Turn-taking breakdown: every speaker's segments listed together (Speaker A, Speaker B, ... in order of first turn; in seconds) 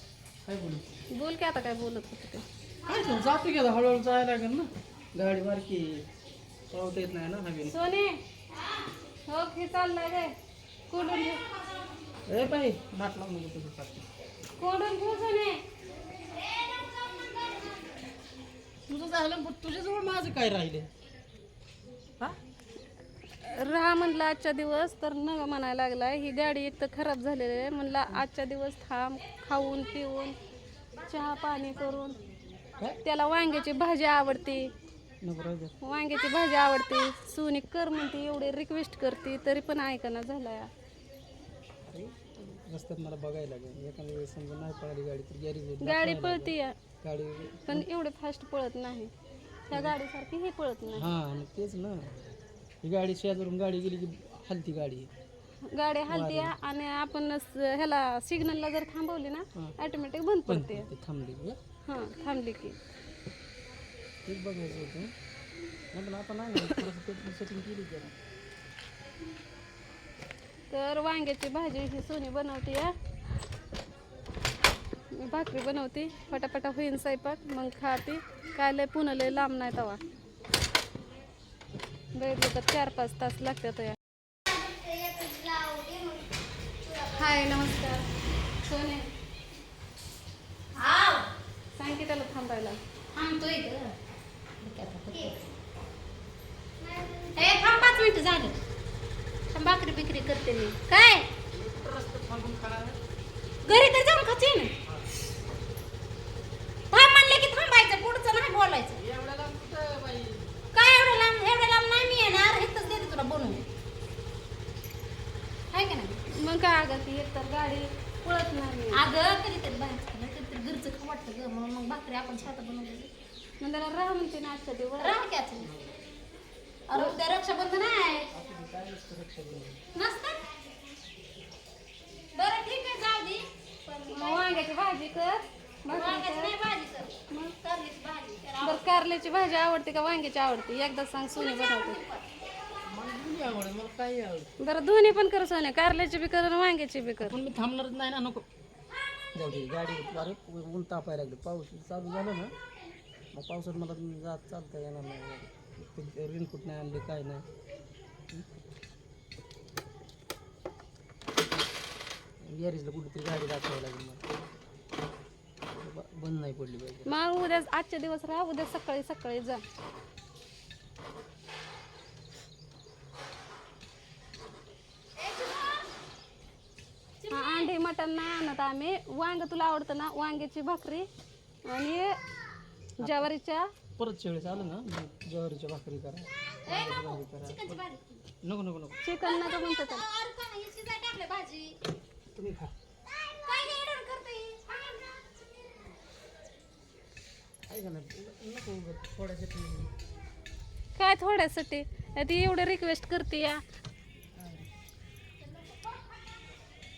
Speaker A: 0.4-0.8, 2.8-6.0, 6.7-7.8, 12.2-14.1, 18.8-20.9, 35.2-35.7, 41.9-47.9, 49.7-50.0, 50.9-52.1, 52.8-55.1, 56.1-56.5, 60.5-61.6, 64.2-65.1, 65.9-68.1, 101.5-103.0, 108.9-110.5, 125.6-126.0, 128.3-129.8, 142.8-144.5, 147.2-148.4, 149.3-152.5, 153.3-157.5, 162.4-164.3, 165.7-167.1, 183.0-183.3, 184.0-187.9, 188.4-189.0, 192.3-192.7, 197.7-199.9, 204.3-204.7
Speaker B: 1.1-2.4, 7.6-8.2, 9.3-10.3, 10.9-11.5, 14.6-15.6, 23.4-30.4, 31.0-32.2, 33.0-34.7, 35.8-40.7, 45.8-46.8, 47.7-49.1, 49.7-51.1, 55.7-60.9, 61.8-62.8, 70.7-72.9, 75.1-80.0, 82.1-84.0, 87.1-88.1, 88.6-89.1, 91.7-92.8, 97.5-98.4, 99.5-101.0, 103.6-104.7, 116.3-119.0, 123.6-125.2, 134.1-136.5, 138.6-142.0, 144.6-147.4, 167.1-169.6, 177.3-181.1, 181.7-182.2, 183.0-183.7, 189.0-190.0, 200.9-203.6
Speaker C: 16.3-17.9, 84.5-87.3, 90.7-91.3, 93.1-93.9, 94.6-95.4, 96.8-98.5, 101.0-101.3, 106.9-109.0, 110.7-113.7, 115.7-116.2, 118.9-123.1, 125.0-125.7, 126.9-128.3, 129.9-130.4, 132.3-134.8, 135.9-139.0, 141.3-142.2, 175.2-175.9, 177.2-177.7, 186.6-188.0, 189.2-191.8, 193.1-195.2